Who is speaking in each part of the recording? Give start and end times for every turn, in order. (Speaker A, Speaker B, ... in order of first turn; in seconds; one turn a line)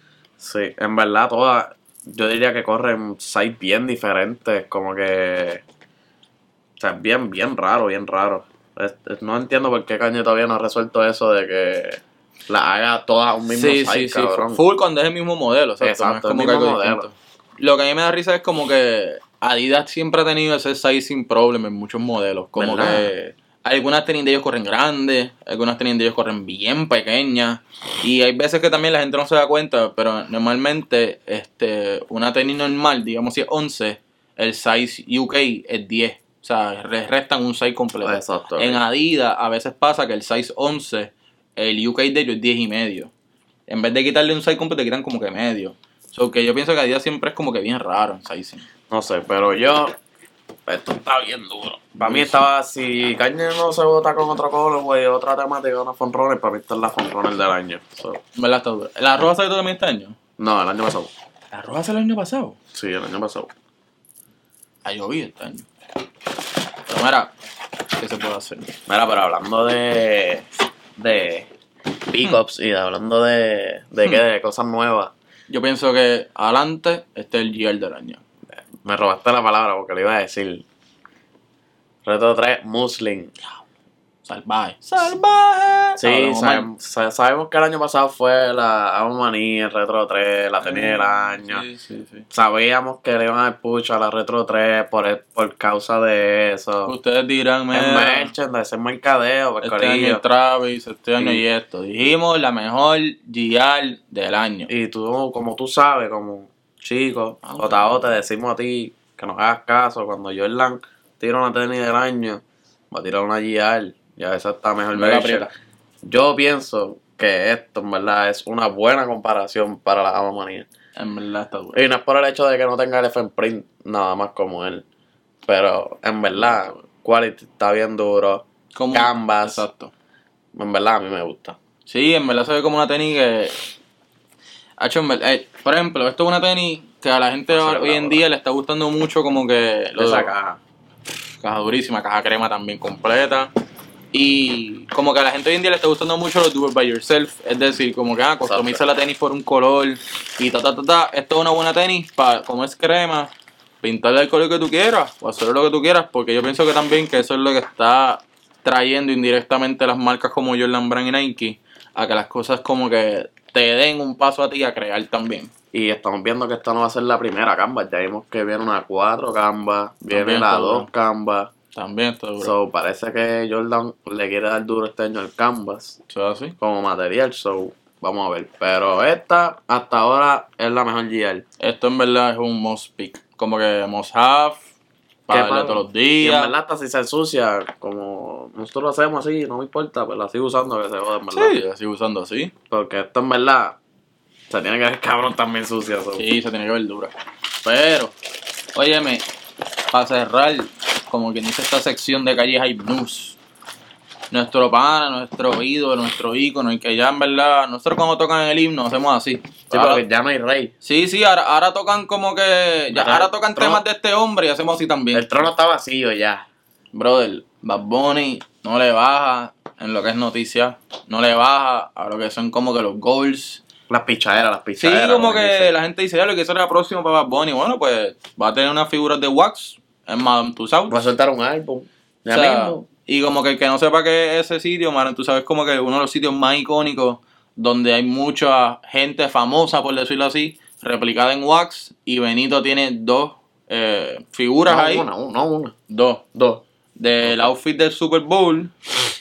Speaker A: 0.4-5.6
Speaker A: 6.8-14.6
Speaker B: 13.5-43.1
Speaker A: 15.8-17.1
Speaker A: 22.6-23.1
Speaker A: 38.0-38.8
Speaker B: 43.7-48.6
Speaker A: 48.9-49.9
Speaker A: 50.7-58.2
Speaker B: 52.0-52.5
Speaker B: 58.4-60.1
Speaker A: 60.4-61.1
Speaker B: 61.5-62.6
Speaker A: 62.7-63.5
Speaker B: 64.8-65.7
Speaker B: 66.9-67.3
Speaker B: 68.0-68.7
Speaker A: 68.9-71.5
Speaker A: 72.1-75.1
Speaker B: 75.5-78.2
Speaker A: 78.8-80.6
Speaker A: 82.0-83.3
Speaker B: 84.2-86.7
Speaker A: 86.0-91.6
Speaker B: 90.6-92.2
Speaker A: 92.3-96.9
Speaker B: 96.8-98.3
Speaker A: 97.7-100.2
Speaker B: 99.6-104.7
Speaker A: 104.7-115.5
Speaker B: 107.4-108.2
Speaker B: 114.9-115.5
Speaker A: 116.0-120.7
Speaker B: 121.0-121.8
Speaker A: 121.7-124.8
Speaker A: 125.5-129.6
Speaker B: 126.3-126.8
Speaker B: 128.7-129.9
Speaker A: 130.5-131.6
Speaker B: 131.8-133.6
Speaker B: 134.8-140.3
Speaker A: 137.5-138.3
Speaker A: 139.9-140.6
Speaker B: 141.4-143.5
Speaker B: 144.1-153.3
Speaker A: 148.4-148.8
Speaker B: 153.8-165.5
Speaker A: 165.7-171.5
Speaker B: 170.1-170.9
Speaker B: 171.7-172.5
Speaker A: 172.4-176.0
Speaker B: 176.1-176.5
Speaker A: 176.6-181.4
Speaker B: 181.6-184.6
Speaker B: 185.3-186.5
Speaker A: 185.3-191.6
Speaker B: 191.3-192.5
Speaker A: 192.7-193.8
Speaker A: 194.5-196.2
Speaker B: 196.2-198.1
Speaker B: 198.7-199.2
Speaker B: 199.9-203.4
Speaker B: 204.3-210.0
Speaker A: 209.7-210.7
Speaker B: 210.8-215.4
Speaker A: 212.9-213.8
Speaker A: 215.1-216.4
Speaker B: 216.9-223.6
Speaker A: 223.9-225.7
Speaker B: 224.8-231.0
Speaker A: 230.9-232.8
Speaker B: 232.3-245.1
Speaker A: 244.7-245.7
Speaker B: 245.9-246.2
Speaker A: 246.3-246.6
Speaker B: 247.0-248.7
Speaker A: 247.2-247.5